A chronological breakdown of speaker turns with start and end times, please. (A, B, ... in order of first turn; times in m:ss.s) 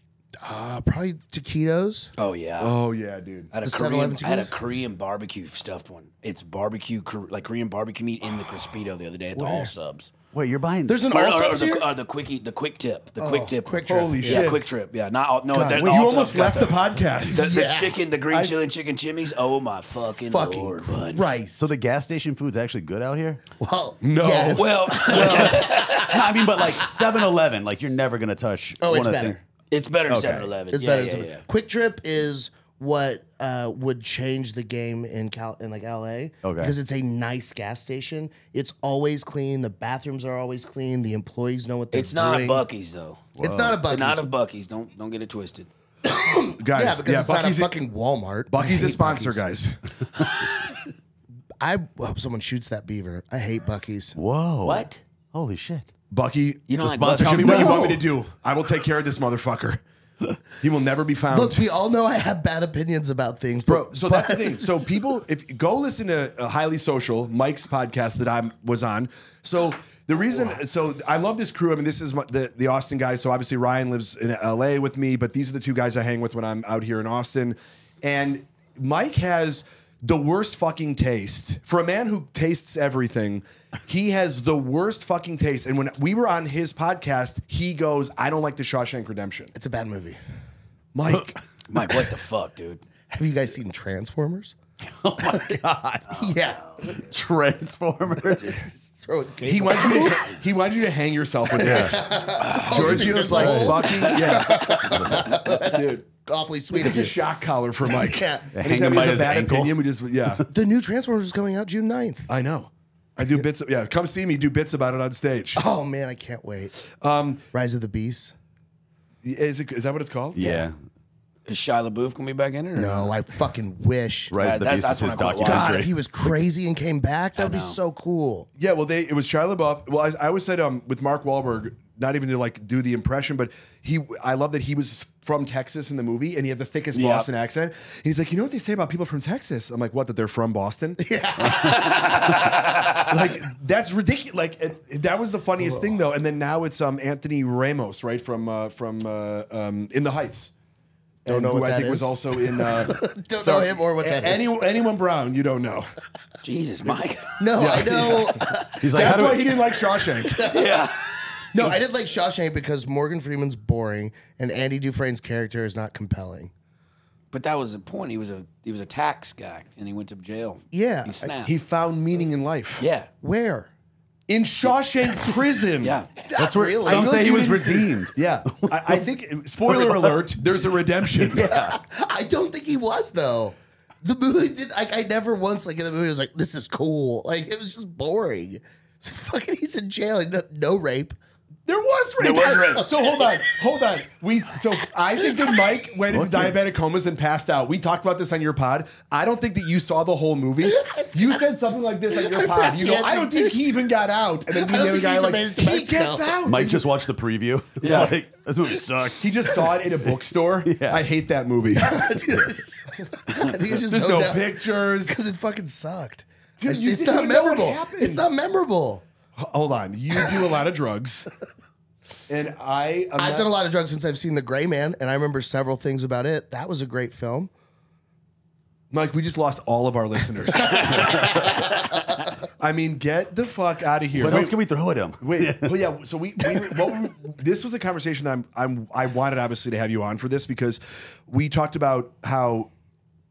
0:00.4-0:02.1 A
0:02.2-0:02.8 B
0:02.6-0:03.5 C
0:03.5-0:10.1 B
0:03.6-0:04.5 A
0:09.4-0:09.7 A
0:10.3-0:11.0 D
0:10.9-0:11.8 A
0:11.1-0:21.2 B
0:13.2-0:14.5 A
0:13.9-0:14.6 C
0:15.5-0:15.9 A
0:15.8-0:17.4 C
0:17.3-0:17.9 A
0:18.3-0:18.6 C
0:20.3-0:21.7 A
0:21.6-0:23.4 D
0:23.6-0:25.9 A
0:24.0-0:25.6 C
0:24.6-0:26.7 B
0:25.6-0:29.4 D
0:28.8-0:29.4 A
0:29.7-0:31.4 B
0:30.1-0:30.4 D
0:30.1-0:30.4 C
0:30.7-0:42.6 A
0:36.4-0:36.7 D
0:41.9-0:43.2 B
0:43.4-0:43.8 D
0:43.4-0:44.3 A
0:43.8-0:45.7 B
0:46.0-0:49.4 A
0:46.6-0:47.7 C
0:48.5-0:49.8 C
0:51.6-0:54.2 A
0:54.1-0:55.9 D
0:54.6-0:55.0 B
0:56.1-0:59.8 C
0:56.7-0:57.9 B
0:56.8-0:58.0 D
0:57.4-0:58.0 A
1:00.4-1:01.7 C
1:01.3-1:04.7 A
1:03.6-1:29.5 C
1:29.6-1:30.2 A
1:30.9-1:31.4 C
1:31.7-1:32.8 B
1:33.1-1:34.6 A
1:34.8-1:36.4 D
1:35.3-1:35.6 A
1:36.1-1:37.0 A
1:36.9-1:38.6 D
1:38.4-1:40.4 A
1:39.4-1:42.1 C
1:41.5-1:47.2 A
1:41.6-1:42.0 D
1:42.4-1:45.2 B
1:42.6-1:46.0 C
1:44.9-1:45.2 D
1:46.7-1:50.4 C
1:47.9-1:48.5 A
1:48.6-1:49.8 D
1:50.5-1:52.3 A
1:52.3-1:55.6 C
1:55.6-1:56.8 A
1:57.0-1:57.4 C
1:57.5-1:58.3 A
1:59.2-2:00.4 C
2:00.3-2:00.8 D
2:00.4-2:00.7 A
2:01.4-2:03.1 B
2:02.8-2:04.4 A
2:04.3-2:05.9 D
2:04.4-2:05.9 B
2:05.4-2:08.5 A
2:07.4-2:07.8 B
2:08.6-2:21.0 C
2:16.9-2:17.3 B
2:21.0-2:22.4 A
2:21.5-2:23.0 B
2:23.0-2:30.5 C
2:31.2-2:35.9 C
2:31.3-2:34.6 A
2:36.4-2:37.7 B
2:37.4-2:40.9 A
2:37.6-2:40.5 C
2:38.8-2:39.4 D
2:40.4-2:41.2 B
2:41.5-2:46.5 A
2:47.3-2:51.5 B
2:50.7-2:51.3 A
2:51.4-2:52.8 C
2:52.8-2:53.1 B
2:53.2-2:53.7 A
2:54.3-2:56.0 C
2:55.8-2:56.1 B
2:56.3-2:57.3 A
2:56.4-2:59.0 D
2:56.8-3:01.5 C
2:59.7-3:00.2 D
3:01.2-3:01.8 D
3:01.3-3:11.2 A
3:11.7-3:26.8 C
3:12.2-3:12.9 B
3:12.4-3:13.2 A
3:16.1-3:16.6 D
3:20.7-3:21.4 A
3:22.2-3:23.6 A
3:24.5-3:26.7 A
3:26.4-3:29.6 D
3:27.8-3:28.1 C
3:27.8-3:28.1 B
3:29.2-3:32.0 C
3:30.6-3:31.0 D
3:31.8-3:39.0 A
3:33.8-3:35.2 C
3:36.6-3:38.2 C
3:39.4-3:41.3 C
3:42.3-3:43.5 C
3:43.2-3:47.5 A
3:48.9-3:51.2 C
3:50.7-3:51.7 A
3:50.9-3:51.5 B
3:52.6-3:54.6 C
3:54.2-3:55.7 D
3:55.2-4:02.7 C